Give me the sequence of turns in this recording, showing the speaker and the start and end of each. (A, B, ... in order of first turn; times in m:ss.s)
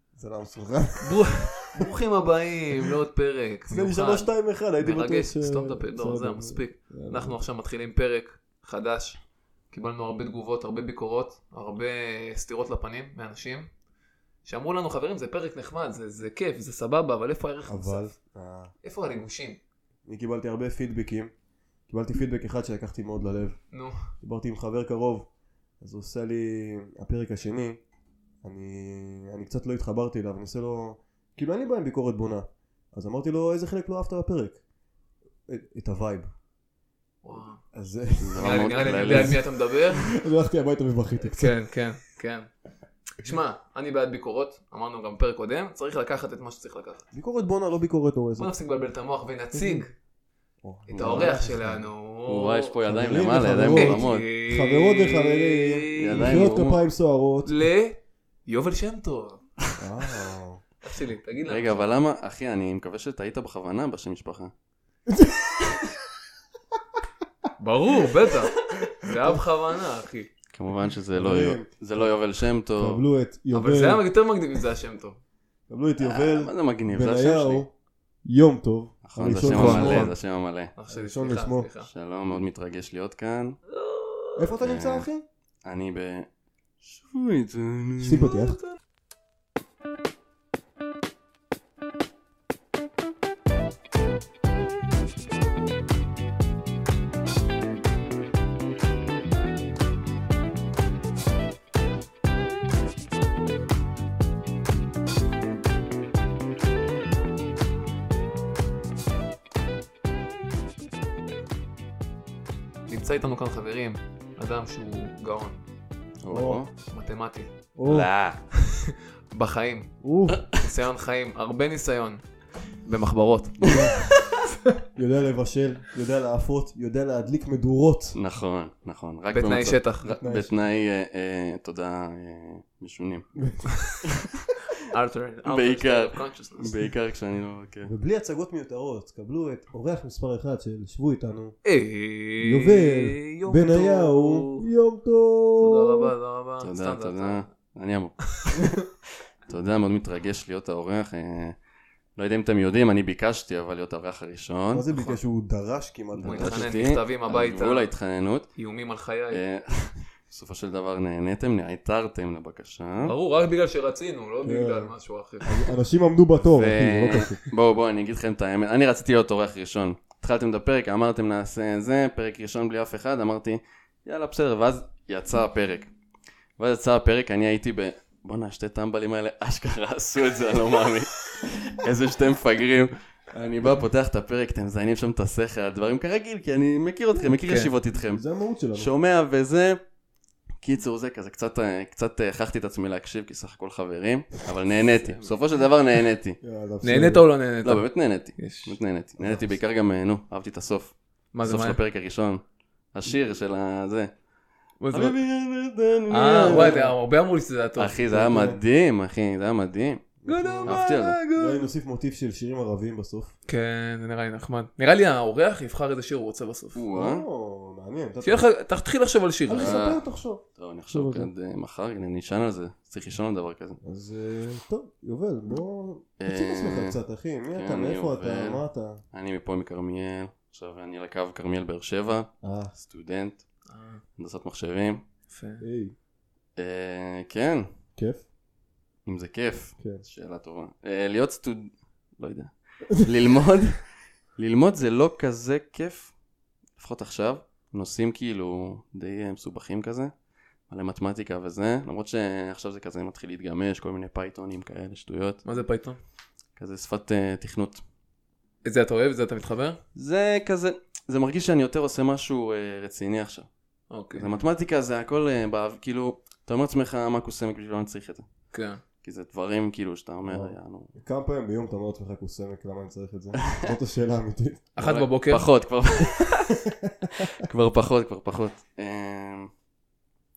0:00.2-0:01.8 A
0:01.0-0:04.3 B
0:03.7-0:07.4 A
0:04.8-0:09.2 B
0:09.7-0:13.7 B
0:14.4-0:18.1 B
0:17.7-0:18.7 A
0:18.8-0:19.6 B
0:20.0-0:21.3 A
0:21.9-0:23.6 A
0:23.7-0:24.0 B
0:24.2-0:25.3 A
0:25.8-0:27.8 A
0:28.4-0:34.6 A
0:35.5-0:36.3 A
0:37.2-0:37.6 B
0:37.7-0:41.6 A
0:38.2-0:39.4 C
0:38.4-0:40.1 B
0:41.3-0:42.5 B
0:43.2-0:47.0 B
0:47.1-0:48.5 A
0:48.4-0:49.9 B
0:49.5-0:49.8 A
0:50.6-0:51.9 A
0:50.9-0:56.4 B
0:52.2-0:54.3 C
0:52.8-0:57.5 A
0:56.0-0:56.8 C
0:57.4-0:59.4 B
0:59.8-1:00.6 A
1:00.8-1:01.8 B
1:01.4-1:04.5 C
1:05.1-1:05.9 A
1:07.6-1:10.3 B
1:09.1-1:09.4 A
1:10.5-1:13.0 C
1:11.1-1:12.1 A
1:12.8-1:14.0 A
1:13.5-1:15.2 B
1:15.7-1:17.7 A
1:16.0-1:17.6 C
1:18.2-1:20.1 A
1:19.0-1:20.7 C
1:19.5-1:20.2 B
1:20.8-1:21.9 B
1:20.9-1:21.7 A
1:21.8-1:23.6 C
1:23.7-1:24.4 B
1:24.4-1:25.2 A
1:24.6-1:25.1 C
1:25.6-1:26.3 C
1:26.8-1:28.4 C
1:28.0-1:28.6 A
1:28.4-1:28.7 B
1:52.9-1:55.6 B
1:56.2-1:56.7 C
1:56.3-1:56.6 A
1:56.9-1:57.5 B
1:57.8-1:58.1 A
1:57.8-1:58.4 C
1:58.5-1:59.9 B
2:00.0-2:00.5 A
2:00.5-2:02.2 B
2:02.8-2:04.7 B
2:03.6-2:04.1 A
2:05.0-2:08.2 A
2:08.1-2:13.5 C
2:09.3-2:10.1 B
2:10.2-2:10.5 A
2:13.4-2:13.7 A
2:14.0-2:14.5 C
2:14.9-2:16.8 B
2:15.4-2:17.9 C
2:17.8-2:21.6 A
2:21.6-2:24.7 B
2:22.4-2:26.1 A
2:25.6-2:27.5 B
2:26.6-2:28.9 C
2:29.5-2:31.6 C
2:32.2-2:34.9 C
2:34.7-2:36.7 A
2:36.2-2:38.5 C
2:36.2-2:37.9 B
2:38.6-2:39.4 B
2:39.3-2:43.1 C
2:43.0-2:45.7 B
2:44.4-2:44.9 A
2:45.4-2:47.4 A
2:46.5-2:55.9 C
2:56.6-3:08.2 C
3:07.3-3:07.7 B
3:08.0-3:08.9 A
3:08.7-3:09.8 C
3:10.6-3:16.4 C
3:16.4-3:17.2 A
3:16.8-3:17.8 B
3:17.6-3:24.1 C
3:18.4-3:18.8 B
3:19.2-3:19.6 A
3:21.3-3:21.8 B
3:24.8-3:25.2 B
3:24.9-3:26.8 C
3:26.1-3:28.0 B
3:26.2-3:26.9 A
3:27.8-3:30.1 C
3:28.1-3:28.6 A
3:30.2-3:33.3 A
3:30.2-3:31.6 B
3:30.6-3:31.2 C
3:33.5-3:36.8 B
3:36.7-3:37.2 C
3:36.9-3:38.4 A
3:38.2-3:39.8 B
3:39.4-3:41.3 A
3:39.6-3:40.0 C
3:40.6-3:43.8 C
3:43.8-3:49.0 A
3:46.2-3:47.0 C
3:47.5-3:53.4 C
3:52.4-3:52.7 A
3:53.7-3:54.0 B
3:54.2-3:55.0 C
3:55.3-3:55.6 B
3:55.6-3:55.9 A
3:56.6-3:57.7 C
3:58.0-3:58.2 A
3:59.0-4:03.8 C
4:04.4-4:06.1 C
4:06.8-4:10.1 C
4:10.7-4:15.4 C
4:15.4-4:16.0 B
4:16.6-4:17.8 C
4:18.6-4:19.8 B
4:20.0-4:23.5 C
4:23.9-4:24.3 B
4:24.1-4:28.2 C
4:28.5-4:28.8 B
4:29.0-4:30.9 C
4:30.3-4:34.7 A
4:33.4-4:33.8 C
4:34.8-4:35.4 B
4:34.8-4:39.5 C
4:36.5-4:37.1 A